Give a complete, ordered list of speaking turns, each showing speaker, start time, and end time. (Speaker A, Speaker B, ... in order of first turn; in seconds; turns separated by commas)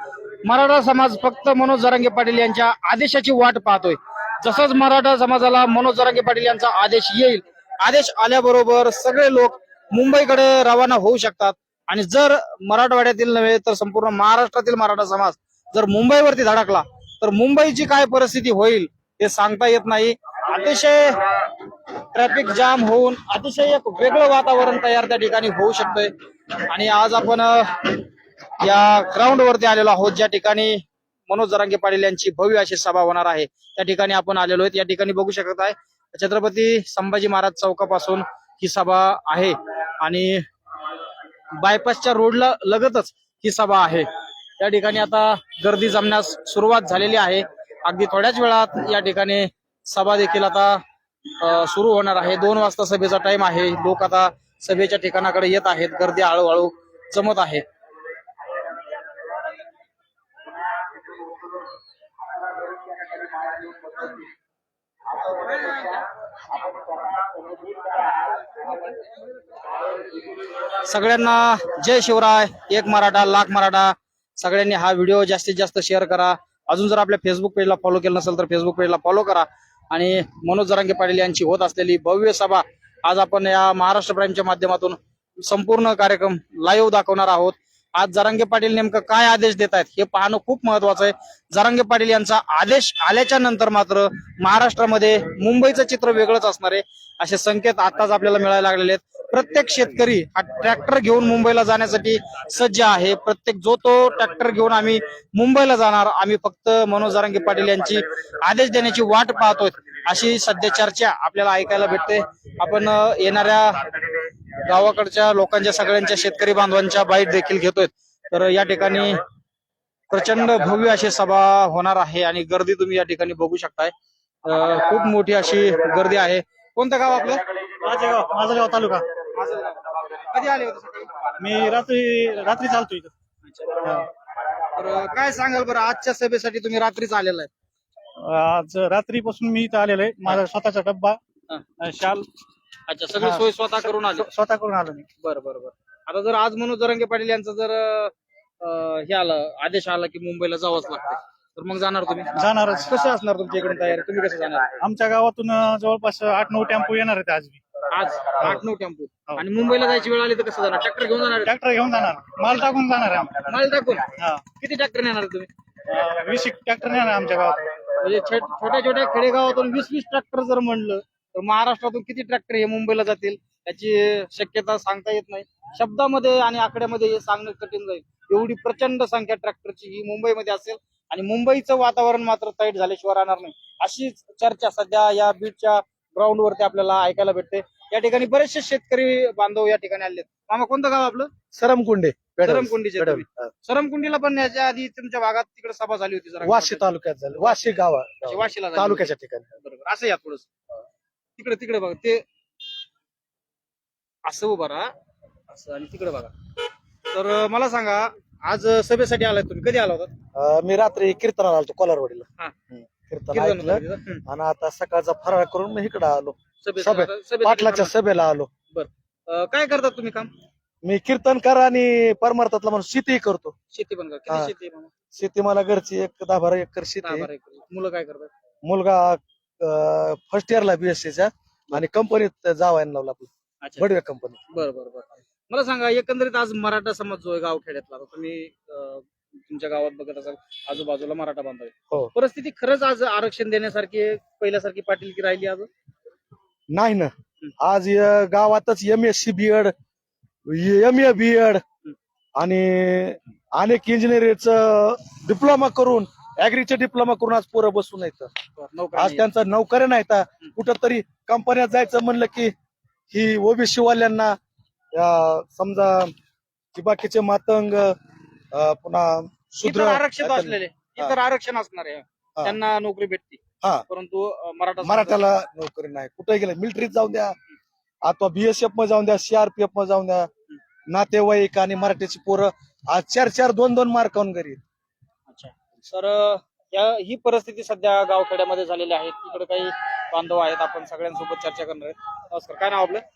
Speaker A: 0.4-21.2, Speaker A: 22.1-26.1, Speaker A: 26.7-27.9, Speaker A: 28.6-40.5, Speaker A: 41.6-44.1, Speaker A: 44.6-50.8, Speaker A: 51.4-57.6, Speaker A: 70.9-113.8, Speaker A: 114.6-119.2, Speaker A: 120.1-123.9, Speaker A: 124.5-127.4, Speaker B: 127.8-129.1, Speaker A: 129.3-129.8, Speaker A: 130.3-131.1, Speaker B: 131.4-133.1, Speaker A: 133.5-133.7, Speaker A: 134.8-137.5, Speaker B: 138.2-141.2, Speaker B: 141.8-142.2, Speaker A: 142.9-144.3, Speaker B: 143.2-143.5, Speaker B: 144.1-145.1, Speaker A: 145.2-154.7, Speaker B: 152.3-153.0, Speaker B: 154.8-157.6, Speaker A: 157.9-161.5, Speaker B: 161.5-163.4, Speaker A: 163.5-164.1, Speaker B: 164.2-164.4, Speaker A: 164.6-165.5, Speaker B: 165.9-167.6, Speaker A: 168.0-191.3, Speaker C: 191.5-193.5, Speaker A: 192.4-197.6, Speaker C: 196.4-199.5, Speaker A: 198.3-200.5, Speaker A: 201.4-202.2, Speaker A: 204.2-204.9, Speaker A: 205.5-206.3, Speaker A: 207.1-210.1, Speaker C: 210.3-218.5, Speaker A: 213.3-214.2, Speaker A: 216.6-217.9, Speaker A: 218.7-220.3, Speaker C: 220.8-223.6, Speaker A: 223.7-224.9, Speaker C: 224.3-224.5, Speaker C: 225.1-227.3, Speaker A: 227.0-228.3, Speaker C: 228.6-234.4, Speaker A: 234.5-245.7, Speaker C: 246.7-249.7, Speaker C: 250.5-251.6, Speaker C: 252.4-258.3, Speaker A: 258.6-259.3, Speaker C: 258.9-262.5, Speaker C: 263.1-264.4, Speaker C: 264.9-266.1, Speaker C: 266.7-268.0, Speaker C: 268.5-271.1, Speaker A: 269.6-275.2, Speaker C: 274.8-277.4, Speaker C: 278.0-280.3, Speaker C: 280.9-284.6, Speaker A: 285.3-293.0